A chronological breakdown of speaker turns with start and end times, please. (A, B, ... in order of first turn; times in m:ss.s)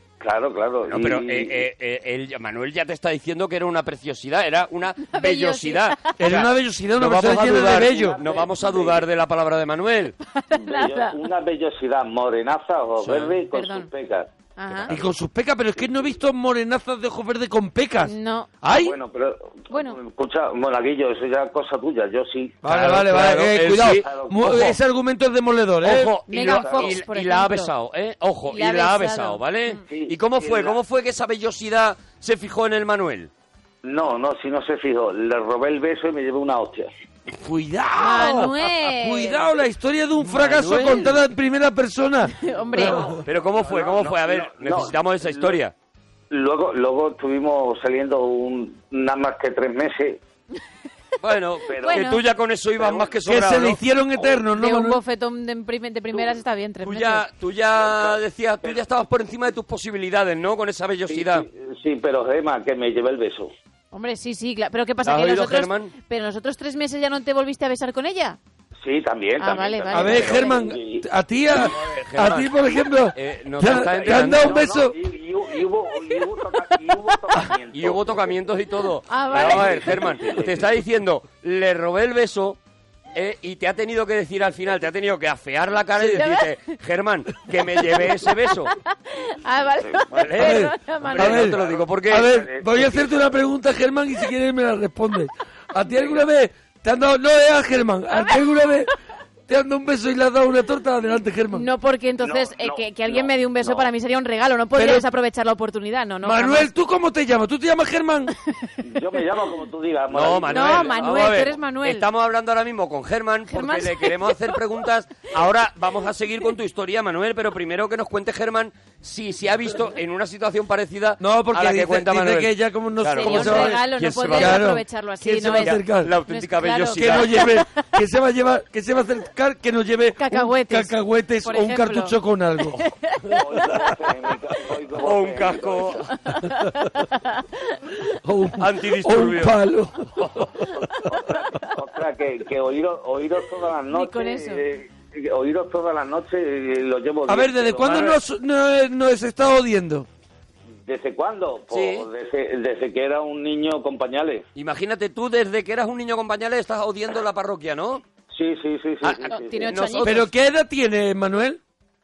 0:00.2-0:01.7 A
0:00.9-0:10.2 B
0:05.1-0:06.2 C
0:06.2-0:08.2 D
0:07.2-0:09.1 A
0:10.3-0:11.2 C
0:10.6-0:14.3 A
0:13.0-0:13.4 B
0:13.5-0:13.9 C
0:14.6-0:14.9 C
0:14.9-0:19.0 D
0:18.0-0:18.5 C
0:18.6-0:22.6 A
0:19.7-0:20.0 C
0:22.6-0:26.1 D
0:22.7-0:24.8 B
0:24.0-0:24.6 A
0:25.8-0:33.3 B
0:26.3-0:27.7 C
0:26.4-0:27.0 A
0:28.5-0:29.8 C
0:29.9-0:30.8 A
0:33.8-0:36.9 A
0:37.4-0:43.2 D
0:38.0-0:39.5 C
0:40.2-0:41.2 B
0:42.4-0:43.2 C
0:43.2-0:45.6 A
0:43.2-0:45.7 B
0:46.3-0:50.2 A
0:51.2-0:53.8 B
0:51.6-0:52.1 A
0:51.8-0:52.2 C
0:52.8-0:53.2 A
0:53.2-0:55.0 D
0:54.5-0:57.2 C
0:56.8-1:01.5 B
0:57.7-0:58.8 A
1:01.1-1:03.5 A
1:03.9-1:08.4 C
1:05.0-1:05.9 B
1:08.8-1:11.0 A
1:09.4-1:10.7 C
1:09.9-1:15.0 D
1:11.5-1:12.6 B
1:13.2-1:14.6 B
1:13.8-1:18.4 A
1:17.7-1:22.6 B
1:19.1-1:20.3 C
1:19.2-1:20.7 A
1:23.1-1:28.7 B
1:26.0-1:26.6 C
1:29.1-1:31.4 C
1:29.8-1:30.5 A
1:30.3-1:32.5 B
1:30.4-1:38.9 D
1:31.1-1:33.2 A
1:35.9-1:36.2 A
1:39.5-1:41.7 D
1:41.5-1:46.7 C
1:42.2-1:43.9 A
1:44.8-1:45.1 D
1:46.2-1:48.3 D
1:48.8-1:51.3 A
1:50.1-2:04.7 B
1:50.5-1:52.1 C
1:53.5-1:54.6 C
2:01.2-2:06.1 D
2:03.2-2:07.8 C
2:05.5-2:07.5 B
2:07.0-2:12.8 D
2:10.2-2:12.2 C
2:12.8-2:14.0 C
2:13.3-2:16.0 A
2:15.0-2:16.2 B
2:16.2-2:17.9 C
2:18.2-2:20.7 D
2:18.6-2:19.6 B
2:20.2-2:20.5 B
2:21.0-2:21.6 C
2:21.1-2:28.2 A
2:23.9-2:24.6 C
2:27.3-2:30.1 D
2:27.8-2:28.2 B
2:30.8-2:34.5 A
2:31.7-2:32.1 B
2:34.6-2:38.0 B
2:38.3-2:39.8 A
2:39.0-2:40.3 B
2:39.3-2:40.2 C
2:40.0-2:41.6 D